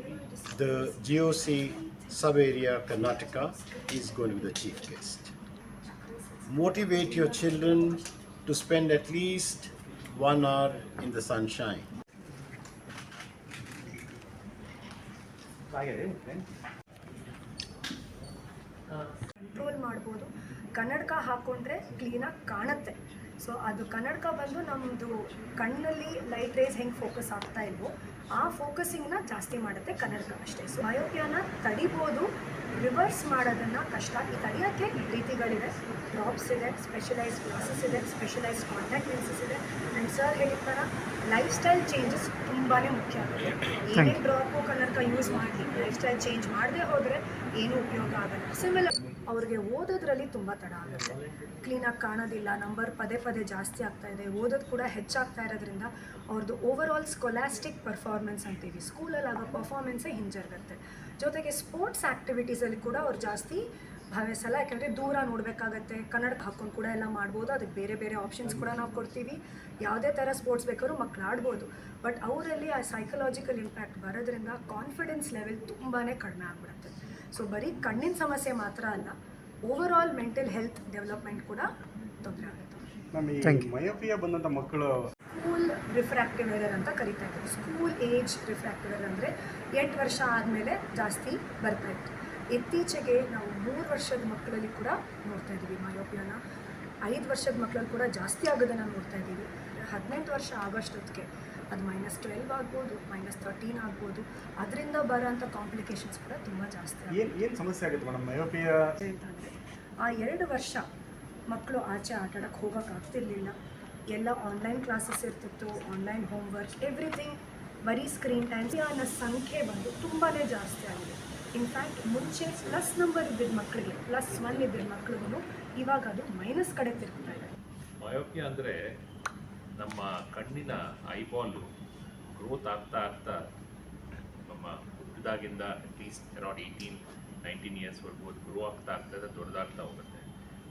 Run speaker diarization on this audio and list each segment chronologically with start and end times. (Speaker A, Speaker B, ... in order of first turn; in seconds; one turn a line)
Speaker A: 0.5-5.3
Speaker A: 6.5-11.9
Speaker B: 19.5-79.1
Speaker B: 79.7-81.7
Speaker B: 82.2-82.8
Speaker C: 83.1-84.9
Speaker B: 85.3-96.4
Speaker B: 97.0-107.3
Speaker C: 107.1-108.9
Speaker B: 109.0-110.8
Speaker B: 111.5-113.5
Speaker B: 114.1-127.5
Speaker D: 128.0-128.8
Speaker D: 129.8-131.6
Speaker D: 132.3-133.4
Speaker D: 134.5-140.3